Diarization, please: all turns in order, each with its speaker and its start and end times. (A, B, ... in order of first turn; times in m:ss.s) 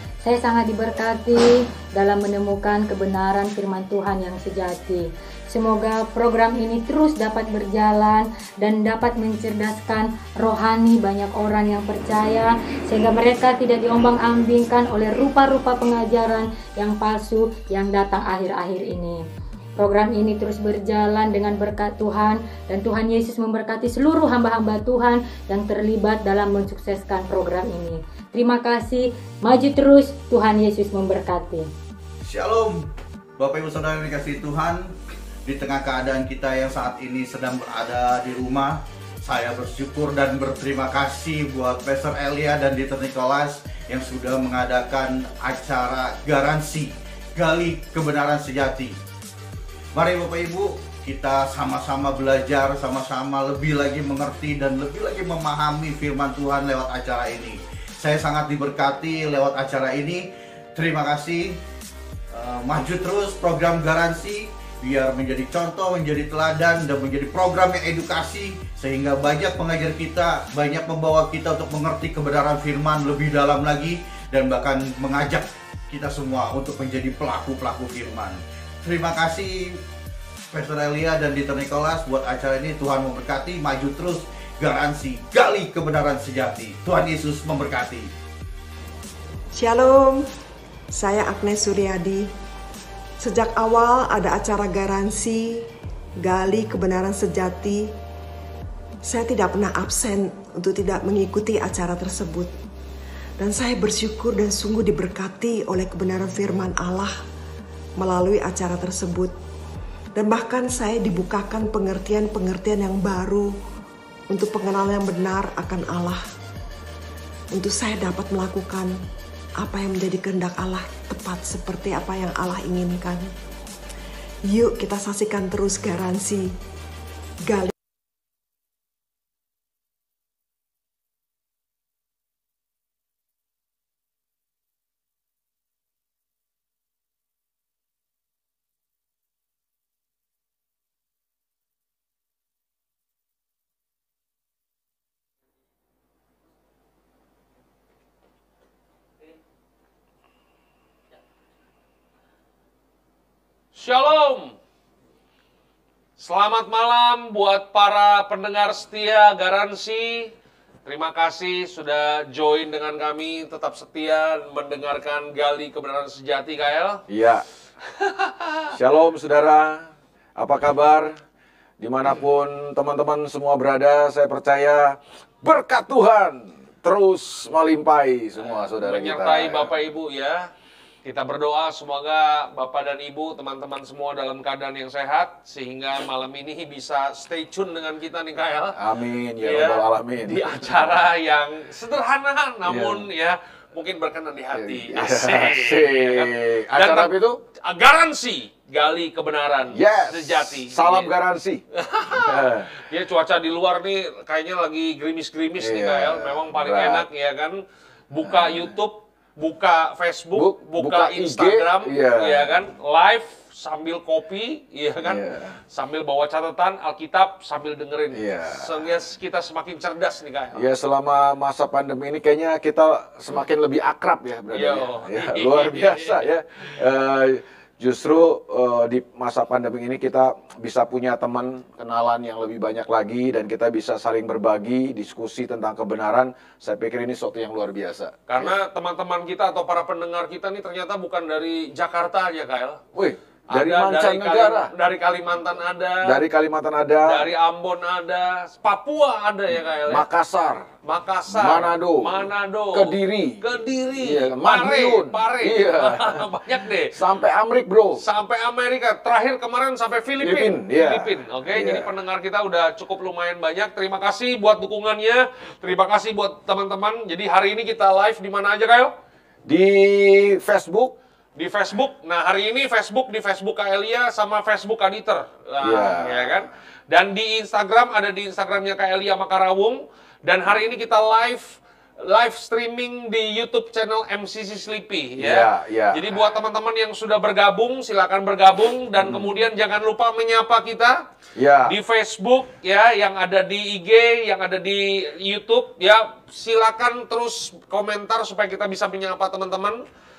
0:00.2-0:19.2 A
0:19.8-0:31.7 A
0:32.2-0:32.9 B
0:33.4-0:34.9 B
0:35.4-0:49.0 B
0:49.9-1:01.6 B
1:02.3-1:19.8 B
1:20.5-1:28.1 B
1:29.5-1:30.2 C
1:30.9-1:32.3 C
1:33.2-1:35.7 C
1:36.2-1:37.9 C
1:39.0-1:42.5 C
1:43.4-1:47.1 C
1:48.0-1:49.3 C
1:50.2-1:53.5 C
1:54.3-1:56.2 C
1:57.5-1:59.0 C
1:59.6-2:03.3 C
2:04.5-2:06.6 C
2:07.4-2:07.7 C
2:33.7-2:34.6 D
2:36.2-2:40.3 D
2:40.8-2:47.0 D
2:47.1-2:47.4 E
2:48.0-2:48.7 D
2:48.7-2:51.1 E
2:51.8-2:59.7 E
2:58.4-3:00.5 D
3:01.0-3:08.8 D
3:08.8-3:11.0 E
3:09.4-3:21.1 D
3:12.6-3:13.1 E
3:14.5-3:17.4 E
3:19.7-3:22.7 E
3:21.7-3:40.7 D
3:25.6-3:27.0 E
3:30.3-3:32.5 E
3:35.0-3:35.6 E
3:38.1-3:38.7 E
3:40.5-3:58.5 E
3:44.5-3:46.3 D
3:58.3-4:02.8 D
4:02.9-4:04.7 E
4:03.5-4:06.2 D
4:06.0-4:07.2 E
4:07.0-4:10.0 D
4:09.9-4:10.7 E
4:10.8-4:16.9 D
4:11.3-4:13.4 E
4:14.0-4:16.2 E
4:16.9-4:18.0 E
4:18.0-4:28.9 D
4:20.2-4:21.9 E
4:29.4-4:30.9 E
4:31.4-4:51.0 D
4:35.6-4:36.4 E
4:45.2-4:46.1 E
4:49.0-4:49.3 E
4:51.4-4:51.7 E
4:51.6-4:59.8 D